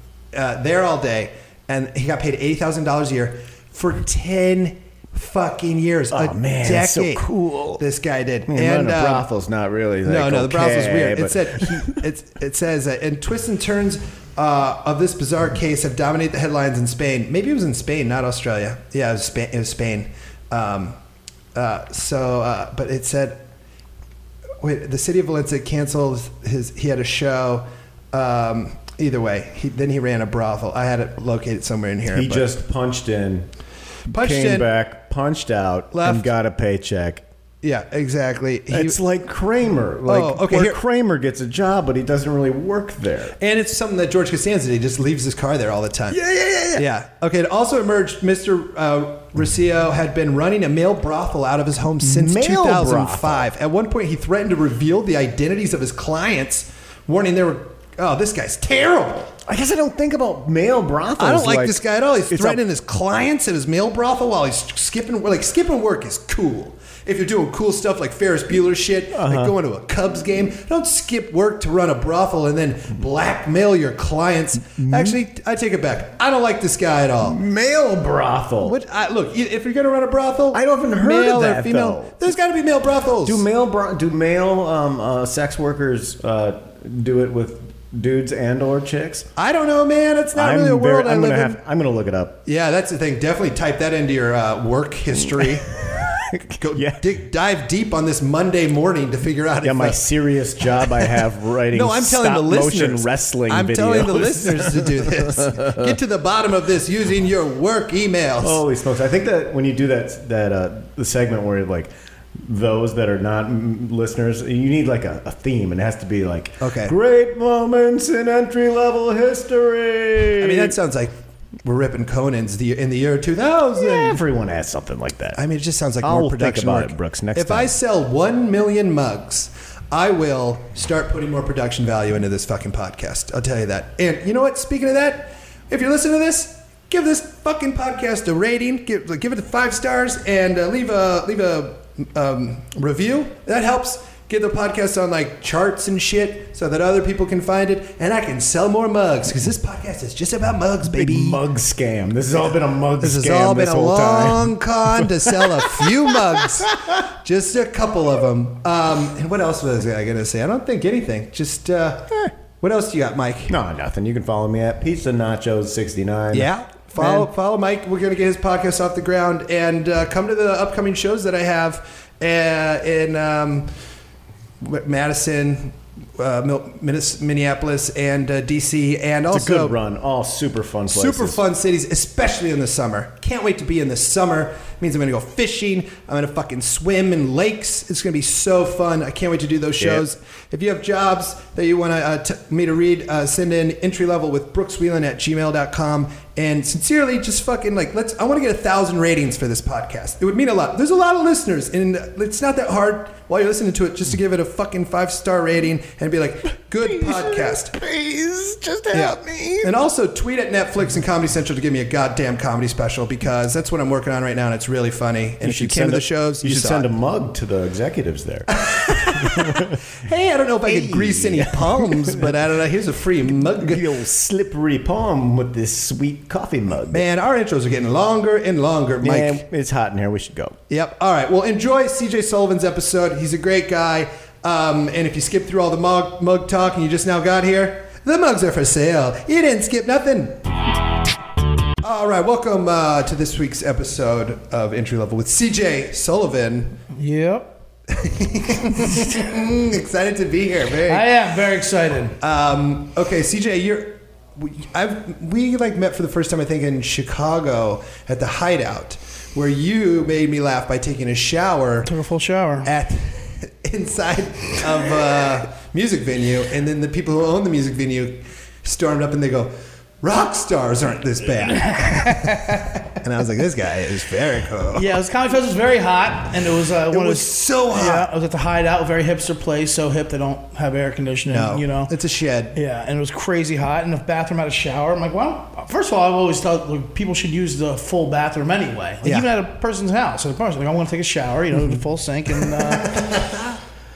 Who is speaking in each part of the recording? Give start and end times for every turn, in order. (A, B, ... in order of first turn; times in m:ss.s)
0:00.3-0:07.2 A
0:06.1-0:07.8 B
0:07.8-0:09.3 A
0:08.5-0:12.0 B
0:10.0-0:21.0 A
0:21.5-0:23.4 A
0:24.6-0:32.5 A
0:32.0-0:33.5 B
0:34.1-0:34.7 A
0:34.1-0:37.2 B
0:35.9-0:36.3 A
0:37.6-0:39.0 A
0:38.7-0:43.4 B
0:40.0-0:40.8 A
0:43.4-0:46.2 A
0:46.1-0:46.8 B
0:46.7-0:59.3 A
0:52.0-0:53.5 B
0:59.5-1:02.6 B
1:01.2-1:17.4 A
1:09.1-1:09.5 B
1:14.7-1:15.2 B
1:17.2-1:18.8 B
1:18.6-1:23.4 A
1:20.5-1:22.3 B
1:23.2-1:29.3 B
1:29.4-1:31.6 A
1:30.3-1:32.4 B
1:32.4-1:35.8 A
1:35.4-1:37.0 B
1:36.6-1:40.0 A
1:39.6-1:45.8 B
1:41.0-1:48.6 A
1:48.4-2:00.7 B
1:56.6-1:56.9 A
2:00.4-2:04.2 A
2:03.8-2:05.4 B
2:05.4-2:31.4 A
2:06.0-2:07.7 B
2:30.9-2:36.8 B
2:33.0-2:43.6 A
2:43.5-2:47.3 B
2:46.3-2:53.7 A
2:54.6-2:59.8 A
2:59.3-3:01.4 B
3:00.9-3:27.8 A
3:09.8-3:10.0 B
3:26.8-3:29.7 B
3:28.9-3:36.9 A
3:35.4-3:39.8 B
3:38.6-3:43.9 A
3:40.6-3:42.3 B
3:43.3-3:47.0 B
3:46.9-3:49.4 A
3:49.0-3:50.6 B
3:50.7-4:00.4 A
4:01.8-4:06.8 A
4:06.9-4:07.5 C
4:07.9-4:11.0 A
4:08.7-4:09.2 C
4:10.9-4:12.2 C
4:12.2-4:21.9 A
4:21.8-4:22.7 C
4:22.6-4:34.9 A
4:31.4-4:32.8 C
4:34.7-4:41.9 C
4:36.9-4:38.1 A
4:41.3-4:42.5 A
4:42.5-4:53.2 C
4:52.6-4:53.6 A